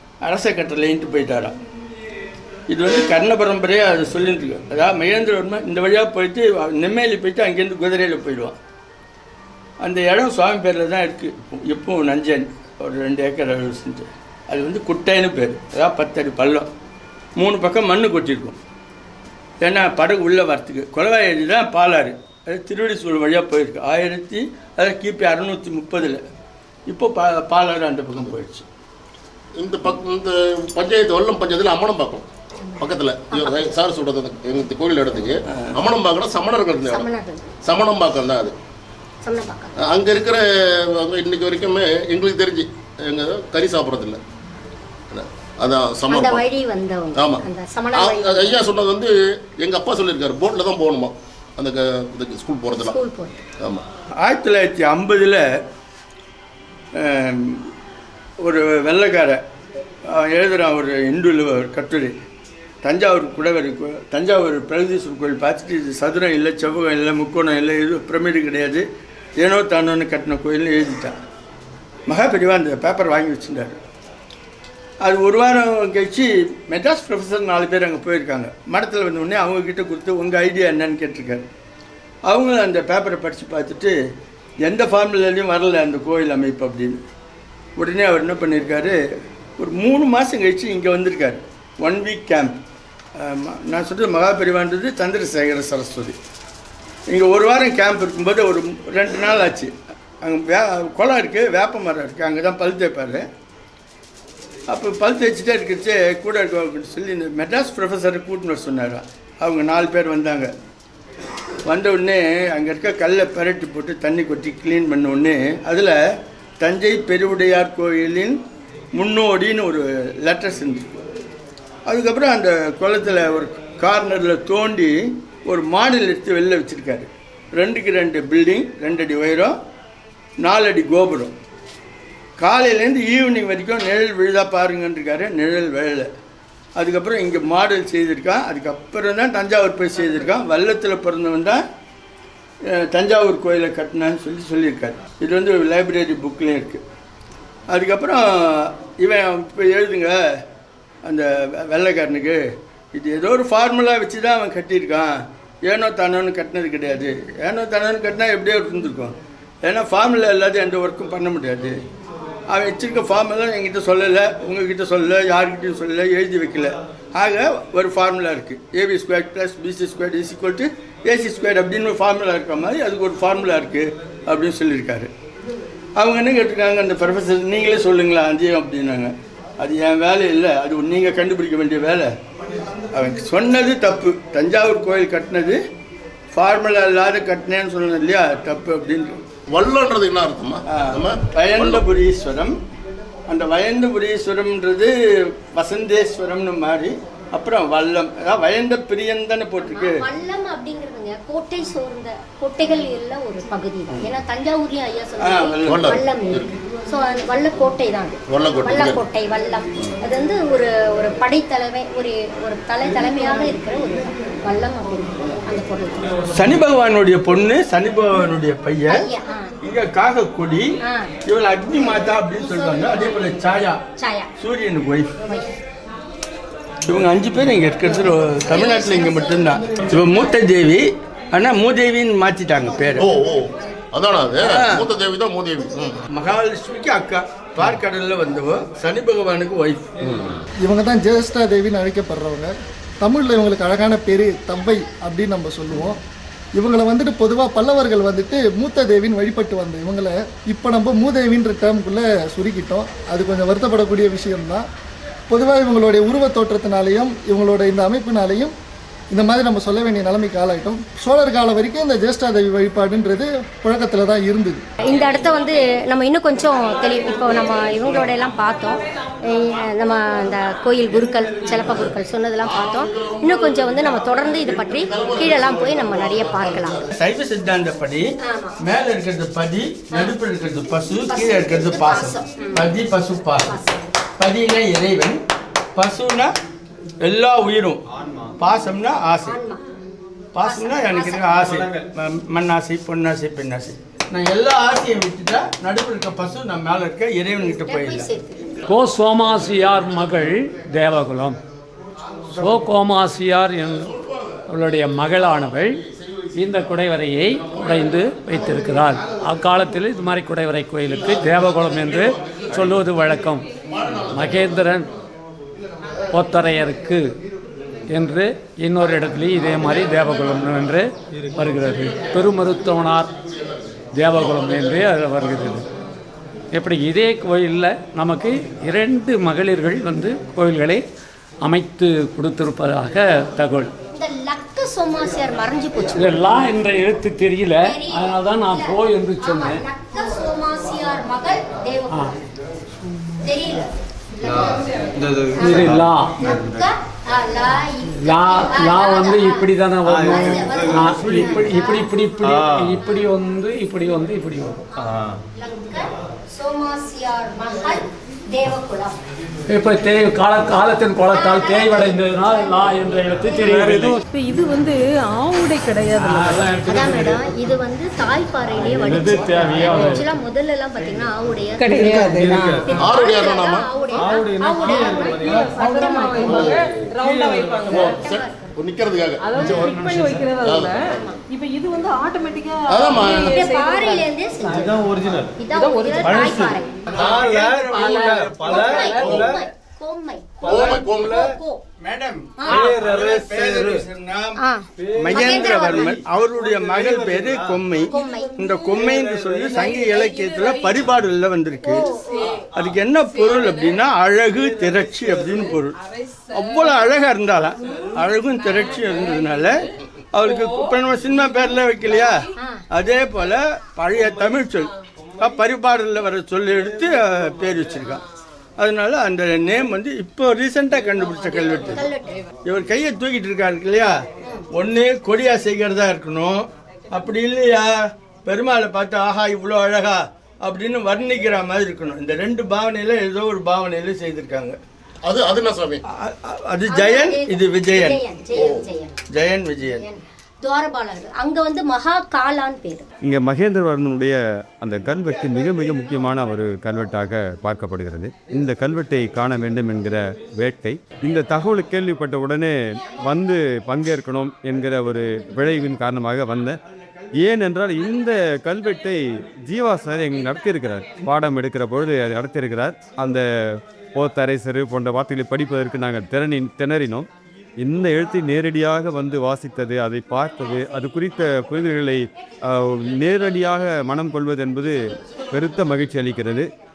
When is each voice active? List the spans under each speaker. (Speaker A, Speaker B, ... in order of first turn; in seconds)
Speaker A: 0.2-1.6, 2.7-8.6, 9.8-16.7, 17.4-18.6, 19.6-26.2, 26.9-28.6, 35.5-35.8, 54.2-55.5, 56.9-57.7, 58.4-59.4, 60.1-62.1, 62.8-68.8, 69.4-71.2, 72.1-73.8, 75.0-81.5, 82.2-83.9, 84.6-87.0, 87.8-89.0, 89.6-92.6, 93.2-96.2, 97.1-103.3, 104.7-110.5, 111.7-116.0, 116.6-118.4, 118.9-121.0, 121.9-129.6, 130.4-131.3, 132.4-136.1, 136.8-141.6, 142.6-146.8, 147.7-150.4, 151.0-161.8, 162.5-175.1, 176.0-182.1, 182.9-185.6, 186.3-189.2, 190.7-192.6, 193.3-200.1, 205.2-206.0, 216.3-219.1, 219.6-220.7, 221.2-223.8, 224.4-225.1, 226.9-233.1, 234.4-234.8, 236.1-239.9, 276.9-278.1, 278.6-283.5, 284.2-285.2, 285.8-286.4, 287.0-287.8, 288.4-289.4, 290.3-298.1, 386.9-388.9, 391.8-394.4, 395.0-401.9, 402.5-405.8, 406.3-418.0, 418.6-421.9, 422.4-424.0, 424.5-427.7, 428.2-434.6, 435.9-438.0, 439.1-439.8
Speaker B: 29.6-32.2, 32.8-37.1, 37.6-38.5, 39.8-44.2, 45.1-46.4, 47.1-53.0, 189.5-191.8, 205.7-206.5, 208.3-209.0, 233.0-236.0, 240.0-240.4, 271.6-276.9, 303.6-304.5, 305.5-306.7, 307.3-308.0, 310.9-312.9, 313.6-314.7, 319.5-320.6, 321.4-325.6, 372.8-373.7, 376.3-376.9, 377.7-379.2, 380.4-381.0, 382.7-383.4, 390.4-391.3, 435.0-435.8, 438.3-438.6
Speaker C: 32.7-33.7, 36.9-37.5, 39.2-39.7, 46.1-48.6, 52.8-53.4, 199.6-216.1, 218.9-219.5, 220.8-221.1, 224.0-224.3, 225.2-225.5, 228.2-230.3, 264.8-276.8, 278.2-278.6, 281.1-282.7, 283.4-283.8, 289.2-289.6, 290.4-291.3, 297.6-298.6, 333.9-336.4, 337.6-342.2, 343.2-351.9, 352.8-353.1, 354.7-359.0, 361.1-363.8, 366.6-372.1, 372.6-376.5, 377.8-378.3, 383.0-384.8, 385.4-387.0, 388.5-391.6, 394.4-396.0, 397.8-398.3, 401.6-402.4, 412.4-412.6, 421.5-422.2, 436.7-438.9, 439.8-442.9
Speaker D: 240.6-246.0, 246.6-254.7, 255.3-258.5, 259.1-264.6
Speaker E: 267.5-267.7, 268.9-269.8, 363.5-366.6, 371.6-372.7, 374.1-377.9, 379.2-384.6, 385.5-386.6, 387.8-389.3, 392.5-392.8, 397.9-398.6, 399.5-400.8, 401.6-403.8, 405.7-407.0, 407.6-409.6, 410.2-412.3, 421.4-422.2
Speaker F: 287.9-288.3, 291.3-291.9, 321.1-321.5, 344.2-346.7, 349.9-351.6, 352.2-352.8, 354.8-355.2, 371.7-372.6, 373.9-377.9, 384.5-385.4, 386.0-389.4, 390.4-391.2, 392.5-393.8, 394.8-397.6, 398.6-399.8, 404.3-405.4
Speaker G: 298.7-301.4, 302.4-303.9, 304.5-305.8, 306.4-313.4, 314.1-314.8, 316.1-317.1, 317.9-323.1, 323.9-325.6, 326.5-330.8, 331.4-333.7, 335.9-339.6, 345.4-346.1, 348.0-354.6, 359.5-364.0, 366.0-367.2, 368.6-370.1, 379.4-380.2
Speaker H: 443.0-456.6, 457.1-476.5